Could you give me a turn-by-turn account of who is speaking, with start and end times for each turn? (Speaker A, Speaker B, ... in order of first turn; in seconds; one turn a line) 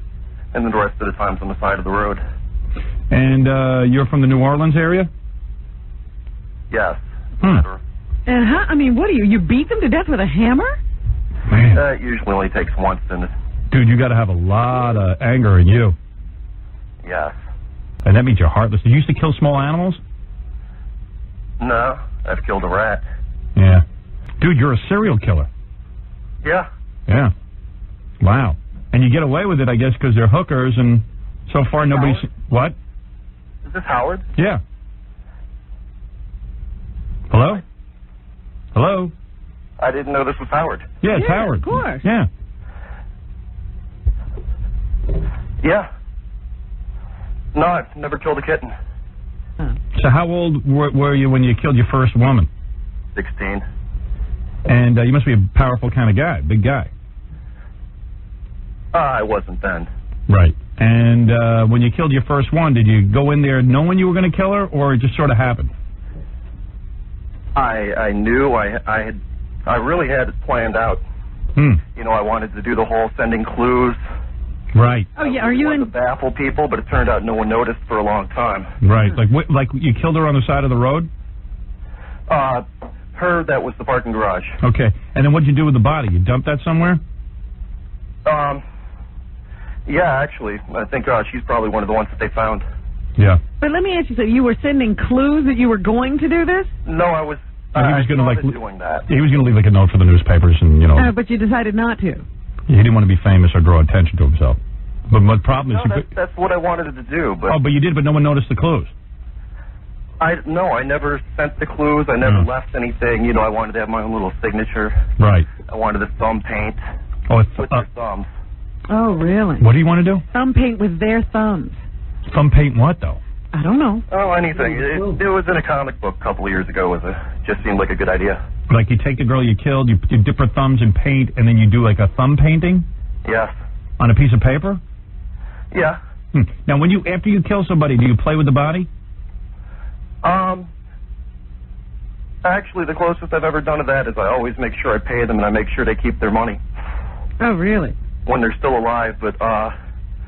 Speaker A: 0.5-2.2
Speaker B: 3.1-5.1
Speaker A: 6.7-7.8
Speaker C: 8.3-10.8
Speaker B: 11.5-11.8
Speaker A: 11.7-13.3
Speaker B: 13.7-15.9
Speaker A: 17.0-17.4
Speaker B: 18.0-20.0
Speaker A: 21.6-23.0
Speaker B: 23.6-23.8
Speaker B: 24.4-25.5
Speaker A: 26.4-26.7
Speaker B: 27.1-27.3
Speaker B: 28.2-32.8
Speaker A: 31.8-32.3
Speaker A: 33.6-34.3
Speaker B: 34.4-34.6
Speaker B: 37.3-37.6
Speaker B: 38.7-39.1
Speaker A: 39.8-41.0
Speaker B: 41.0-42.3
Speaker C: 41.1-42.0
Speaker A: 45.6-45.9
Speaker A: 47.5-48.7
Speaker B: 49.9-52.5
Speaker A: 53.1-53.6
Speaker B: 54.6-56.9
Speaker A: 58.9-59.9
Speaker B: 60.3-65.7
Speaker A: 67.5-71.0
Speaker B: 71.5-71.8
Speaker A: 71.9-74.0
Speaker B: 74.7-75.1
Speaker C: 75.2-75.9
Speaker A: 75.2-78.7
Speaker B: 78.8-81.1
Speaker A: 82.3-84.6
Speaker B: 84.6-87.0
Speaker A: 88.2-88.6
Speaker A: 89.8-92.6
Speaker C: 93.6-96.7
Speaker A: 96.8-99.1
Speaker B: 97.7-98.5
Speaker B: 99.1-101.1
Speaker C: 101.0-102.2
Speaker B: 102.7-104.6
Speaker B: 105.1-106.0
Speaker A: 105.6-107.6
Speaker B: 107.5-108.9
Speaker A: 110.2-115.0
Speaker B: 115.2-115.5
Speaker A: 115.6-116.8
Speaker B: 117.3-117.8
Speaker A: 117.5-118.3
Speaker C: 118.9-119.6
Speaker B: 119.6-120.2
Speaker C: 120.3-121.8
Speaker B: 122.3-123.2
Speaker C: 123.5-124.0
Speaker A: 124.1-128.4
Speaker B: 128.7-132.9
Speaker A: 133.2-133.5
Speaker B: 134.0-134.8
Speaker A: 135.7-136.0
Speaker B: 136.3-138.9
Speaker A: 140.2-140.7
Speaker A: 142.4-146.6
Speaker C: 147.4-147.9
Speaker A: 148.2-149.7